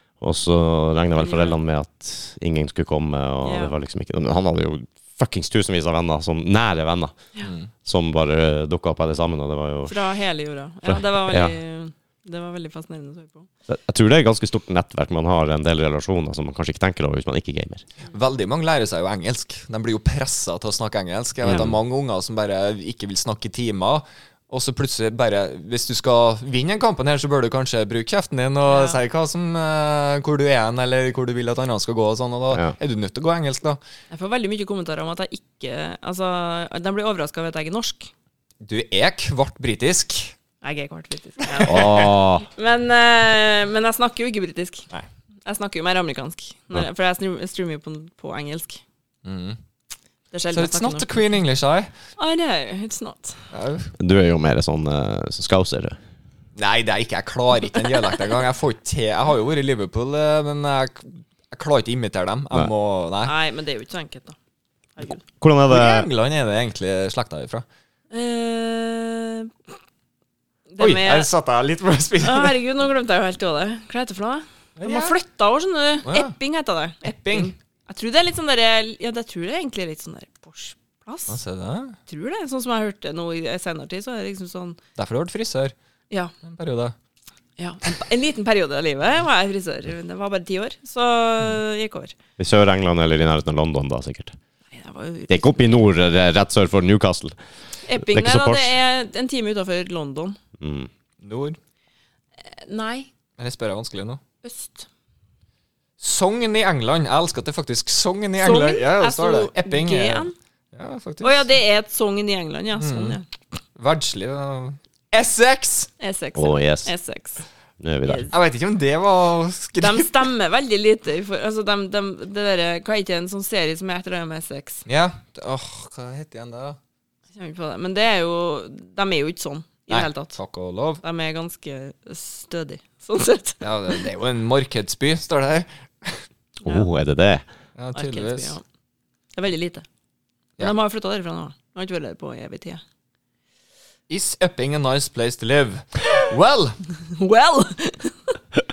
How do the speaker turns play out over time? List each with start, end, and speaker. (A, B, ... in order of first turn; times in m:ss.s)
0:00.2-0:07.2 A
0:01.2-0:01.6 B
0:03.4-0:03.7 B
0:07.4-0:07.7 C
0:07.8-0:10.0 A
0:09.9-0:13.5 B
0:10.9-0:11.6 A
0:13.7-0:17.8 A
0:18.1-0:33.8 C
0:21.4-0:21.8 A
0:28.7-0:29.0 B
0:34.1-0:38.1 B
0:38.6-0:40.3 C
0:40.6-0:44.9 B
0:41.6-0:42.0 C
0:41.6-0:42.5 A
0:45.5-0:48.8 B
0:49.2-0:49.6 C
0:50.3-0:51.2 B
0:50.5-0:51.9 C
0:52.2-0:53.4 B
0:53.5-0:53.9 C
0:54.0-0:56.0 A
0:56.6-1:03.3 C
1:03.2-1:04.4 B
1:05.0-1:05.2 B
1:05.4-1:06.1 A
1:05.7-1:07.6 C
1:08.1-1:09.5 B
1:10.7-1:11.3 B
1:10.8-1:12.6 C
1:12.2-1:21.4 B
1:14.8-1:15.2 C
1:16.0-1:16.4 C
1:17.0-1:17.5 C
1:21.3-1:22.0 C
1:22.1-1:24.8 B
1:25.0-1:25.7 C
1:26.4-1:27.0 C
1:27.6-1:32.2 B
1:32.4-1:34.4 A
1:34.7-1:35.7 B
1:35.3-1:37.4 A
1:37.8-1:40.4 B
1:38.0-1:38.8 A
1:40.6-1:40.9 A
1:41.2-1:41.6 C
1:42.5-1:43.1 B
1:43.4-1:44.2 C
1:44.4-1:44.9 B
1:46.0-1:51.6 C
1:48.4-1:50.3 B
1:51.2-1:53.2 B
1:52.8-1:53.2 C
1:53.8-1:55.9 C
1:56.0-1:57.4 B
1:56.4-1:56.9 A
1:57.8-1:58.2 A
1:58.0-1:58.3 B
1:58.3-2:00.3 C
1:59.8-2:04.8 B
2:04.9-2:06.8 C
2:07.3-2:10.4 B
2:09.9-2:11.0 C
2:11.0-2:14.0 B
2:13.6-2:16.2 C
2:16.6-2:17.4 A
2:17.8-2:18.5 C
2:18.0-2:18.6 B
2:19.4-2:19.8 B
2:20.6-2:22.8 B
2:24.1-2:26.8 C
2:27.1-2:28.3 B